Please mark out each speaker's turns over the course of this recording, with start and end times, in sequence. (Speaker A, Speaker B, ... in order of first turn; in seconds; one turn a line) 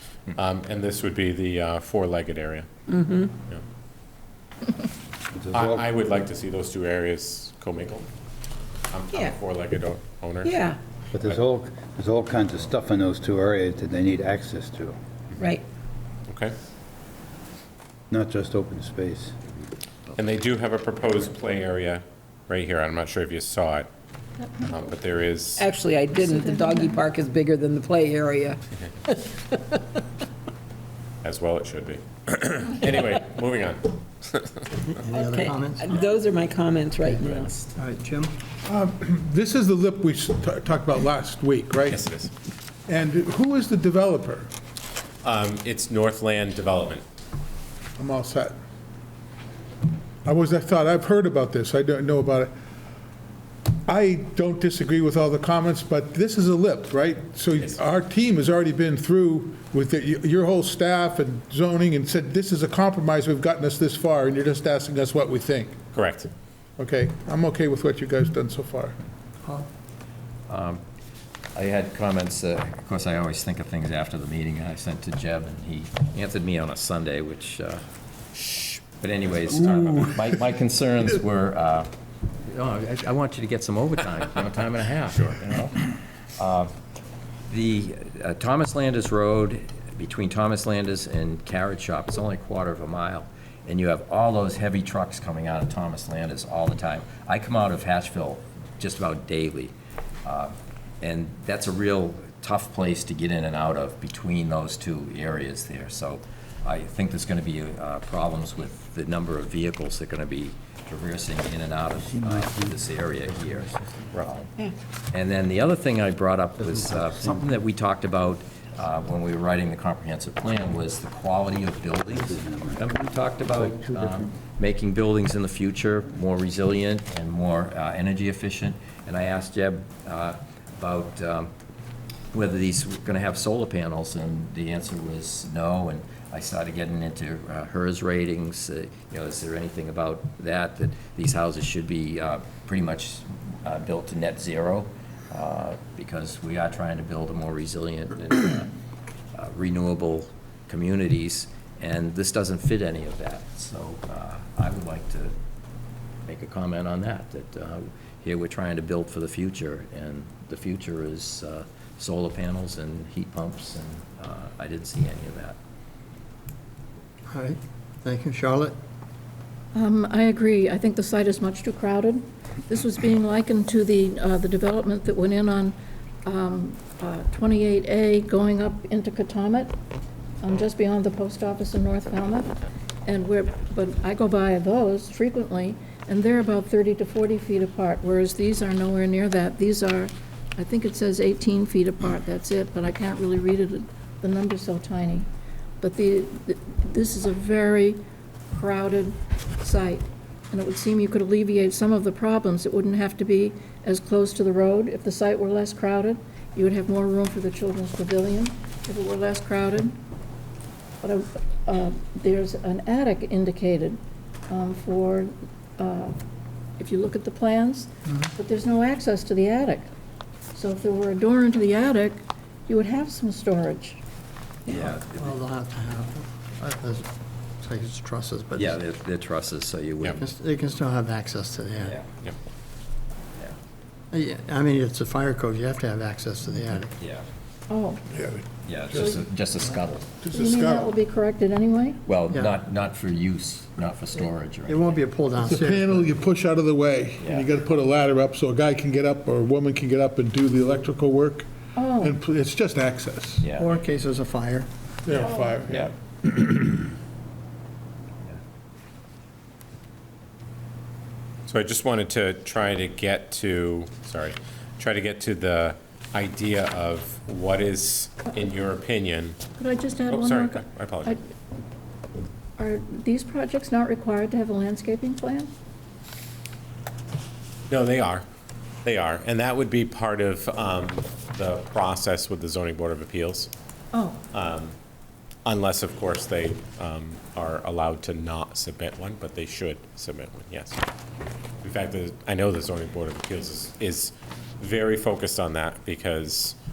Speaker A: 0.3-2.7
Speaker B: 2.9-3.3
Speaker C: 5.3-5.8
Speaker A: 5.5-8.1
Speaker A: 8.9-10.6
Speaker B: 9.1-9.4
Speaker B: 10.4-10.8
Speaker C: 11.1-15.0
Speaker B: 15.4-15.6
Speaker A: 16.3-16.5
Speaker C: 18.1-19.3
Speaker A: 20.1-23.9
Speaker A: 24.6-25.7
Speaker B: 25.6-30.0
Speaker A: 31.2-34.6
Speaker D: 34.9-35.9
Speaker B: 35.1-37.7
Speaker D: 37.8-38.3
Speaker E: 38.7-42.0
Speaker A: 41.9-42.3
Speaker E: 42.9-44.5
Speaker A: 45.2-47.0
Speaker E: 48.0-48.5
Speaker E: 50.2-52.5
Speaker E: 53.9-65.8
Speaker A: 65.9-66.3
Speaker E: 66.8-68.9
Speaker F: 70.5-70.8
Speaker F: 71.5-77.8
Speaker F: 79.0-81.9
Speaker F: 82.5-86.7
Speaker A: 85.1-85.4
Speaker F: 87.5-99.7
Speaker F: 100.2-114.5
Speaker F: 115.1-131.5
Speaker C: 117.0-117.4
Speaker C: 122.2-122.8
Speaker F: 132.3-148.7
Speaker F: 149.3-155.3
Speaker F: 156.2-165.6
Speaker D: 167.3-168.7
Speaker G: 169.7-179.7
Speaker G: 180.4-182.5
Speaker G: 183.1-195.3
Speaker G: 195.8-198.0
Speaker G: 198.5-210.0
Speaker G: 211.0-214.0
Speaker G: 214.5-216.2
Speaker G: 216.8-219.9
Speaker G: 220.5-224.0
Speaker F: 224.7-225.3
Speaker D: 224.7-227.1
Speaker D: 227.6-228.8
Speaker F: 228.6-230.2
Speaker D: 230.1-232.0
Speaker D: 234.1-236.9
Speaker F: 237.0-237.2
Speaker G: 237.7-238.0
Speaker E: 238.1-239.2
Speaker F: 238.6-240.1
Speaker E: 240.2-241.0
Speaker G: 240.3-242.0
Speaker F: 242.1-245.0
Speaker D: 244.7-246.1
Speaker E: 245.4-253.5
Speaker F: 247.2-247.5
Speaker G: 251.8-252.1
Speaker F: 253.4-253.7
Speaker D: 253.6-254.7
Speaker E: 255.1-256.8
Speaker G: 255.1-255.7
Speaker A: 261.5-269.4
Speaker G: 269.6-271.2
Speaker A: 270.1-271.2
Speaker G: 272.6-275.5
Speaker A: 277.7-278.2
Speaker A: 278.8-283.5
Speaker A: 284.3-284.7
Speaker A: 285.4-290.8
Speaker A: 291.6-296.6